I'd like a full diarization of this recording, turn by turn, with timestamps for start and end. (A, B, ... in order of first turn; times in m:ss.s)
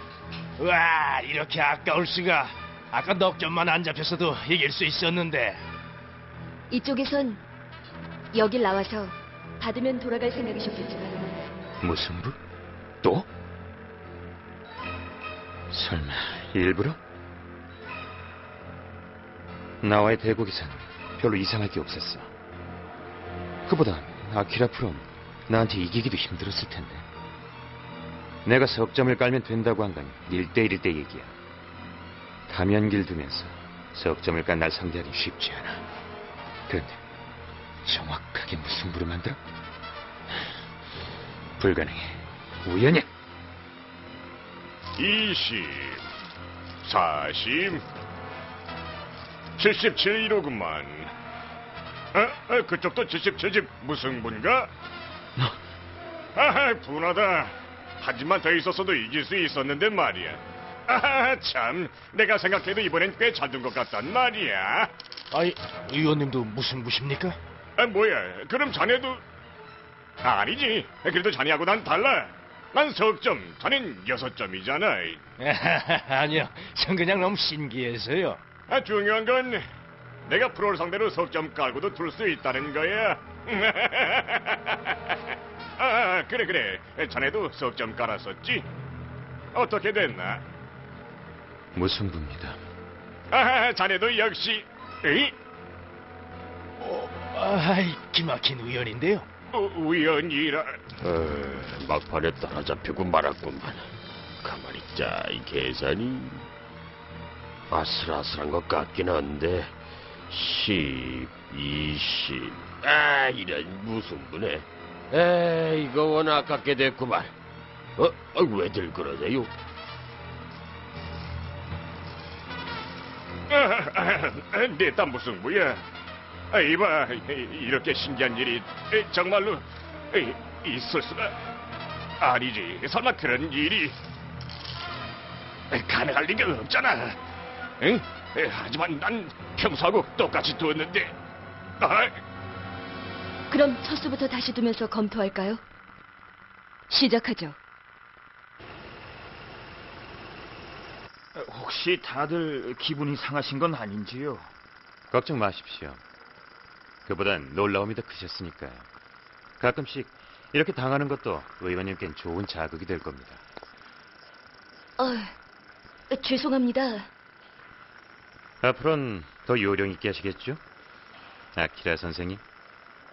0:00.6-0:05.6 A
0:06.7-0:07.4 B
0:08.3-0:11.3 B
0:11.8-0:12.4 C
0:15.7-0:17.0 C
0:19.8-0:22.3 C
0:23.6-0:27.0 C
0:28.4-0:31.3 C
0:32.5-0:35.8 C
0:36.7-0:37.0 C
0:37.8-0:39.4 C
0:41.6-0:43.1 C
0:45.0-0:46.0 D
0:46.8-0:47.8 D
0:49.6-0:51.1 D
0:52.1-0:54.7 D
0:56.4-1:04.9 D
1:05.3-1:07.4 A
1:07.8-1:09.2 D
1:10.2-1:15.2 D
1:15.4-1:18.4 A
1:18.7-1:19.7 D
1:20.2-1:25.2 D
1:25.8-1:28.6 D
1:29.5-1:30.4 D
1:31.7-1:32.6 C
1:33.3-1:35.3 D
1:36.8-1:39.2 A
1:39.5-1:40.8 D
1:41.0-1:43.9 E
1:44.4-1:46.4 E
1:47.7-1:49.7 E
1:50.3-1:57.3 E
1:58.0-1:59.5 E
2:03.5-2:05.8 D
2:06.5-2:11.3 D
2:12.2-2:14.0 D
2:15.7-2:17.2 D
2:17.8-2:21.2 D
2:21.8-2:22.2 D
2:23.5-2:25.6 B
2:26.9-2:27.6 B
2:31.3-2:34.5 F
2:35.1-2:36.0 C
2:37.0-2:38.9 C
2:39.6-2:43.4 C
2:45.0-2:45.3 B
2:46.1-2:47.1 B
2:48.6-2:50.6 C
2:51.5-2:52.4 C